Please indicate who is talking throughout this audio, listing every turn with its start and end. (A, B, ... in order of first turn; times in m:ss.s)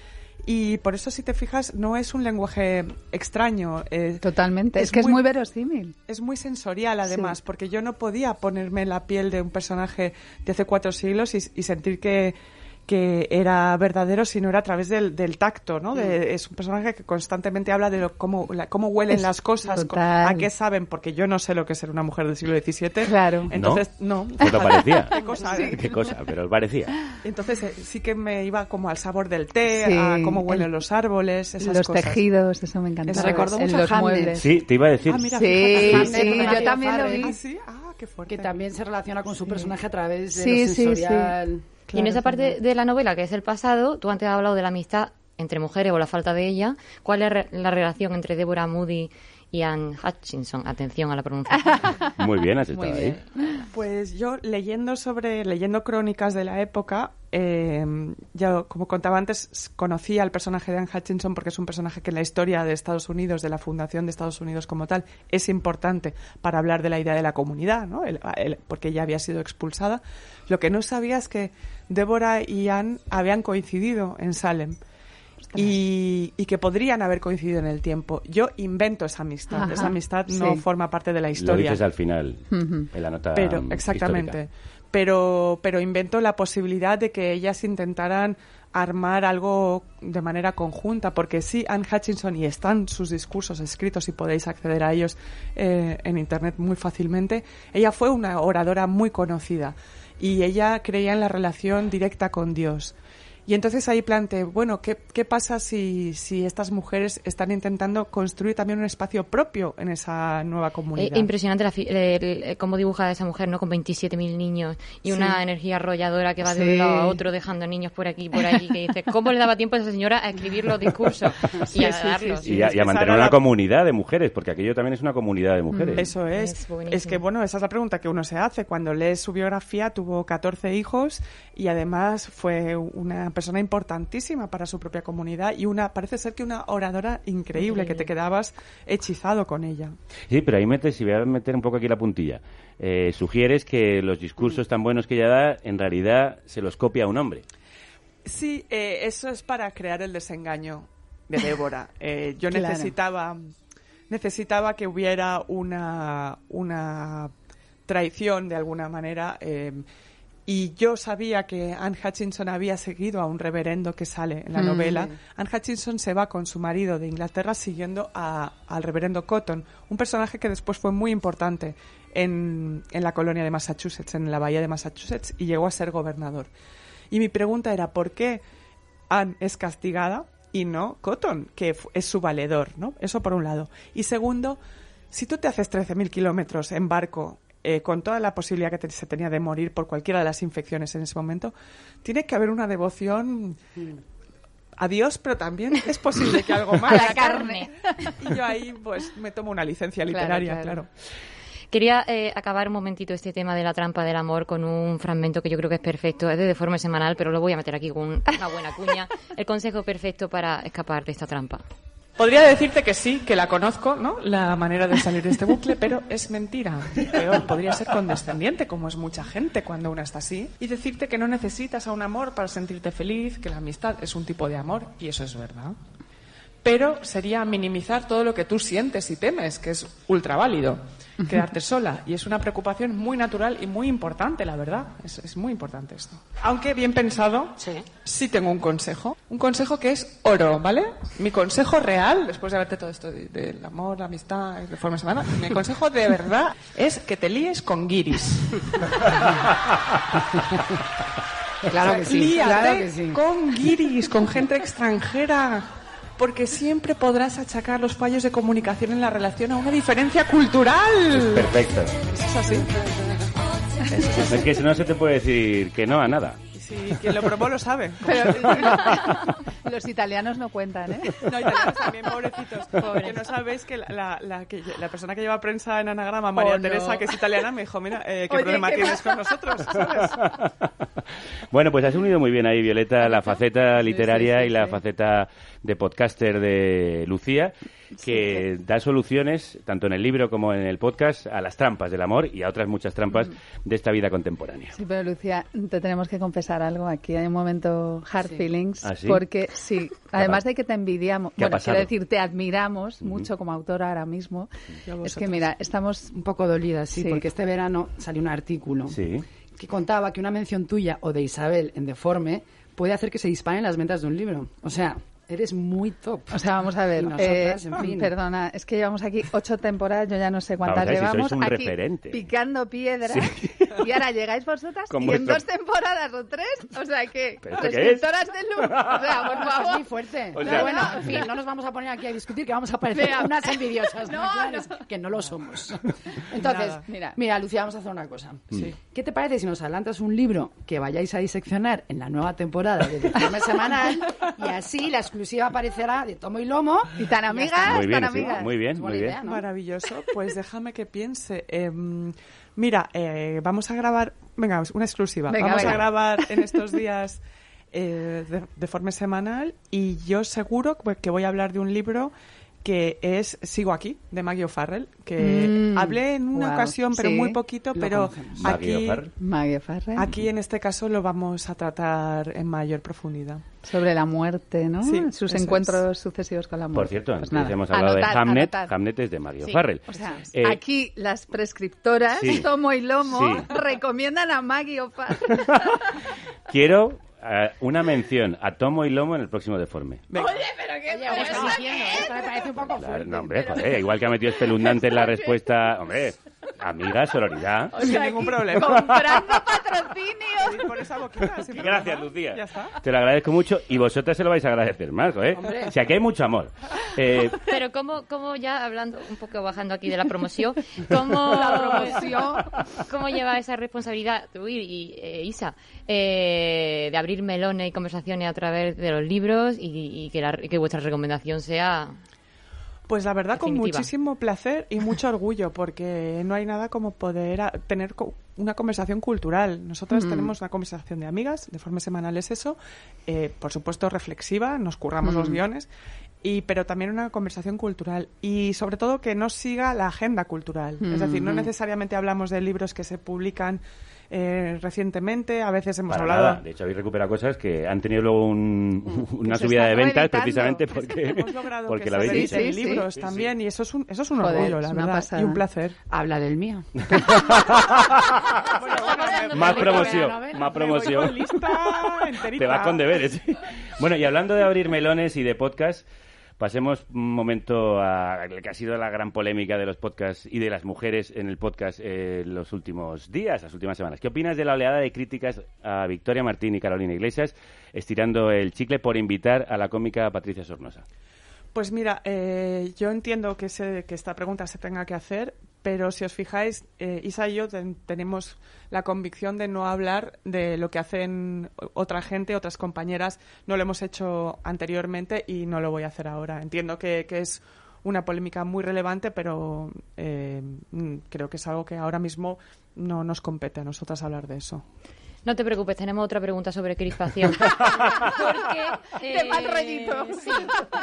0:00.4-0:05.2 A
0:04.2-0:06.0 B
0:06.1-0:26.0 A
0:07.1-0:07.4 B
0:19.1-0:20.5 B
0:23.0-0:23.5 B
0:23.6-0:23.8 C
0:24.4-0:27.0 C
0:24.5-0:26.0 B
0:27.2-0:32.2 A
0:29.7-0:30.7 B
0:31.6-0:34.4 B
0:33.1-0:34.4 A
0:33.2-0:33.8 D
0:34.4-0:36.2 C
0:35.1-0:38.5 A
0:35.3-0:37.4 B
0:35.7-0:37.4 D
0:38.3-0:41.8 D
0:40.3-0:41.4 B
0:41.9-0:42.5 A
0:41.9-0:52.0 E
0:51.6-0:52.1 B
0:52.2-0:53.2 C
0:52.7-0:53.6 B
0:53.7-1:14.8 A
1:15.6-1:21.8 A
1:19.5-1:20.6 B
1:21.4-1:24.4 C
1:22.5-1:22.9 B
1:23.4-1:43.0 A
1:43.5-1:51.3 A
1:51.0-2:02.5 E
1:56.4-1:57.2 B
2:01.7-2:03.4 A
2:02.4-2:06.1 C
2:05.7-2:06.1 B
2:06.0-2:20.0 A
2:06.3-2:07.2 E
2:17.7-2:18.0 B
2:20.3-2:27.4 C
2:28.2-2:33.5 A
2:32.5-2:32.9 B
2:34.1-2:37.3 A
2:37.9-2:39.8 A
2:40.5-2:56.5 A
2:44.6-2:45.1 B
2:57.1-2:58.4 A
2:59.1-3:04.6 A
3:05.1-3:13.6 A
3:14.8-3:20.9 A
3:16.8-3:17.7 E
3:16.8-3:18.1 B
3:20.1-3:20.8 B
3:21.7-3:31.6 E
3:32.2-3:45.8 A
3:46.6-4:09.1 A
4:11.7-4:13.2 D
4:11.8-4:21.5 A
4:21.1-4:22.0 C
4:22.1-4:22.7 A
4:23.9-4:24.5 A
4:24.0-4:26.4 C
4:26.6-4:29.2 A
4:28.0-4:31.8 B
4:31.2-4:40.2 A
4:32.9-4:33.2 E
4:36.3-4:37.1 B
4:38.3-4:39.4 B
4:40.2-4:40.5 C
4:41.5-4:54.8 C
4:43.0-4:44.8 B
4:48.0-4:48.4 B
4:54.7-5:04.5 B
4:58.8-4:59.2 C
5:01.4-5:01.9 C
5:05.0-5:06.1 B
5:05.0-5:05.3 D
5:06.1-5:09.0 D
5:06.9-5:07.2 B
5:08.9-5:09.3 C
5:09.6-5:18.1 D
5:16.3-5:31.1 B
5:20.6-5:22.3 C
5:23.1-5:23.8 C
5:24.9-5:25.4 C
5:27.5-5:28.0 C
5:28.6-5:29.2 C
5:29.4-5:49.5 D
5:30.3-5:31.1 C
5:32.9-5:34.8 B
5:36.4-5:37.2 B
5:47.0-5:48.5 B
5:47.6-5:49.2 C
5:49.2-5:57.2 A
5:55.3-5:56.3 B
5:57.7-6:09.0 A
6:05.2-6:07.4 B
6:07.7-6:08.5 D
6:08.4-6:09.1 C
6:09.2-6:10.1 B
6:10.0-6:13.4 A
6:13.6-6:18.7 B
6:14.8-6:15.8 A
6:16.7-6:20.6 C
6:19.5-6:25.9 B
6:22.2-6:22.5 C
6:23.0-6:23.5 C
6:25.3-6:25.8 C
6:26.5-6:30.0 C
6:30.1-6:30.5 A
6:30.2-6:32.4 B
6:30.9-6:33.6 D
6:31.2-6:31.6 A
6:32.6-6:37.8 C
6:33.4-6:33.7 B
6:34.6-6:35.3 B
6:37.8-6:39.0 A
6:37.8-6:40.7 B
6:38.7-6:39.4 C
6:40.4-6:42.8 A
6:41.5-6:47.4 C
6:45.4-6:45.7 D
6:47.4-6:52.2 E
6:51.3-6:52.5 B
6:52.8-7:02.0 E
7:02.9-7:15.7 A
7:03.4-7:03.9 E
7:09.9-7:10.3 B
7:15.0-7:15.4 B
7:16.2-7:26.4 A
7:20.8-7:21.5 B
7:25.9-7:33.3 C
7:29.2-7:31.0 B
7:31.1-7:35.8 A
7:32.0-7:32.9 B
7:34.2-7:35.4 B
7:35.9-7:36.7 D
7:36.9-7:38.0 C
7:38.6-7:42.9 A
7:38.7-7:40.1 E
7:39.0-7:45.8 C
7:39.4-7:40.8 D
7:46.4-8:00.8 C
8:01.6-8:24.6 A
8:25.2-8:30.6 E
8:28.9-8:30.7 B